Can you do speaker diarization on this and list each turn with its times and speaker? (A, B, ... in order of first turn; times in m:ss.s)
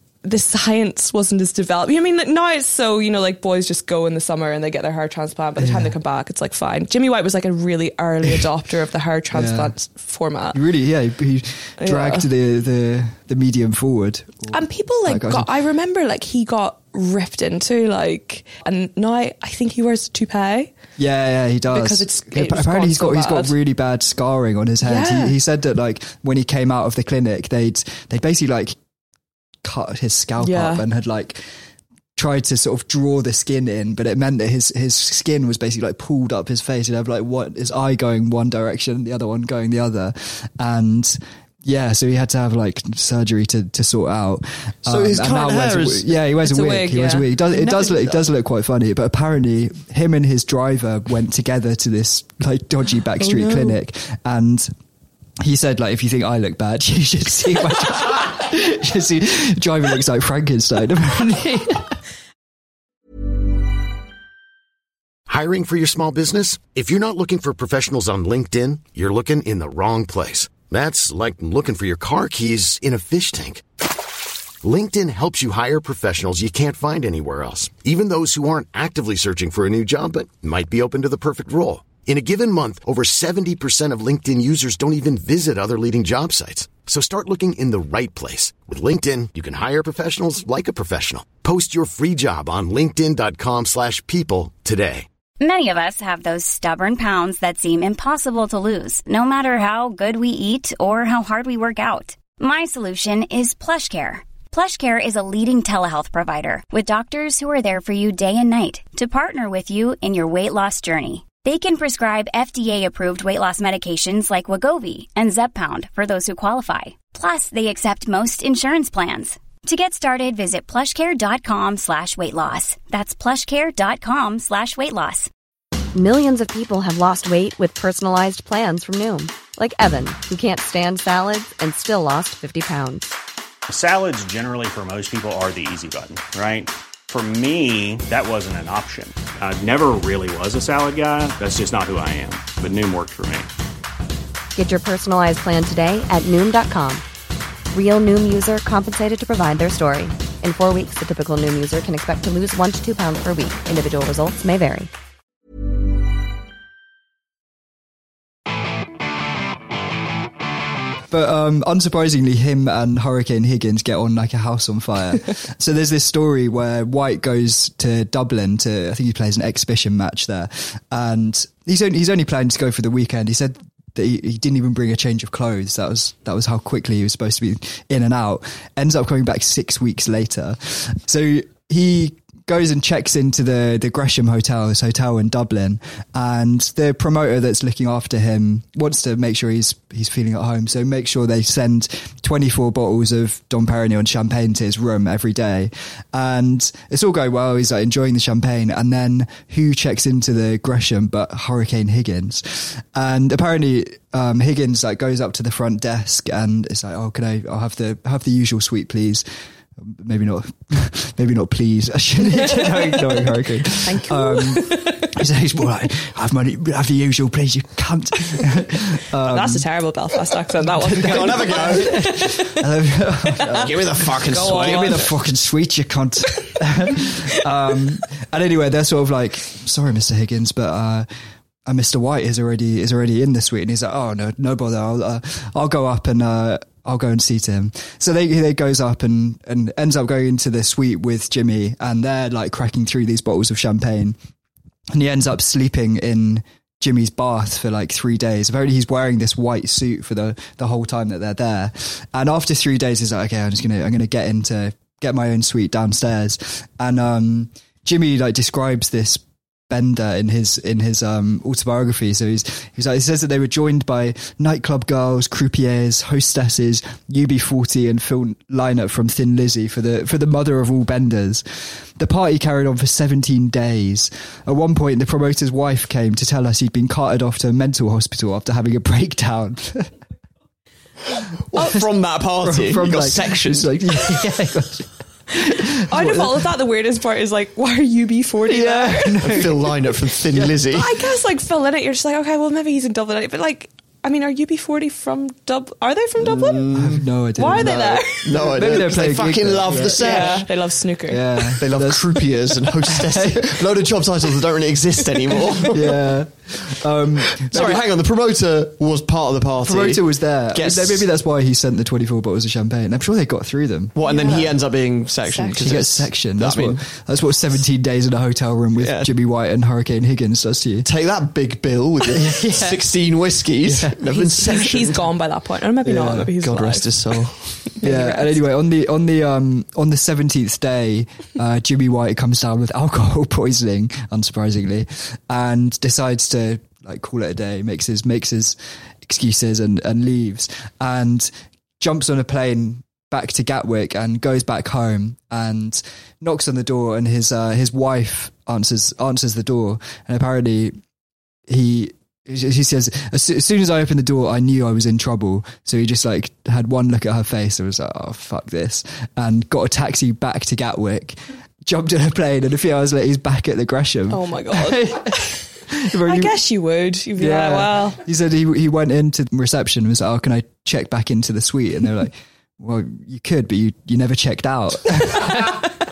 0:00.2-0:10.6 A
0:05.6-0:05.9 B
0:09.3-0:09.7 B
0:10.5-0:15.5 B
0:11.8-0:12.3 A
0:14.5-0:20.7 A
0:21.0-0:28.8 B
0:21.7-0:23.6 A
0:24.8-0:25.4 A
0:29.6-0:31.4 B
0:30.4-0:30.8 A
0:32.2-0:54.7 B
0:44.9-0:46.2 C
0:46.4-0:47.3 A
0:47.6-0:48.2 C
0:53.2-0:53.8 A
0:55.4-1:02.0 B
1:05.3-1:13.6 D
1:14.6-1:35.1 D
1:35.4-2:05.3 E
2:05.9-2:13.1 F
2:13.7-2:23.5 G
2:24.6-2:27.0 F
2:27.7-2:34.9 F
2:41.1-3:29.2 B
3:29.8-3:39.6 B
3:32.4-3:32.9 A
3:33.8-3:35.2 A
3:39.2-3:42.6 A
3:40.9-3:42.1 C
3:40.9-3:51.1 B
3:43.6-3:45.1 C
3:44.3-3:45.1 A
3:51.6-4:04.2 B
4:04.9-4:31.4 B
4:32.0-4:39.9 B
4:41.5-4:43.7 C
4:41.6-4:41.8 B
4:42.4-4:46.5 B
4:45.9-4:49.4 A
4:48.4-4:49.7 B
4:49.2-4:50.9 C
4:50.7-4:56.7 A
4:56.2-4:57.1 C
4:56.7-5:00.4 B
4:57.4-4:58.3 A
4:58.2-5:00.5 C
5:00.0-5:01.6 A
5:01.1-5:02.2 B
5:01.6-5:05.8 C
5:02.9-5:03.6 B
5:05.7-5:07.8 B
5:07.5-5:11.1 C
5:09.6-5:13.9 B
5:13.9-5:16.8 C
5:14.0-5:14.6 A
5:15.3-5:15.6 A
5:15.6-5:20.9 B
5:18.8-5:19.1 C
5:20.8-5:25.1 C
5:22.1-5:22.8 B
5:23.6-5:24.0 B
5:24.0-5:26.9 A
5:25.8-5:26.3 B
5:26.4-5:27.6 C
5:27.7-5:28.4 A
5:27.8-5:50.8 B
5:51.5-6:06.4 B
6:04.1-6:05.4 A
6:06.0-6:08.0 A
6:07.2-6:15.6 B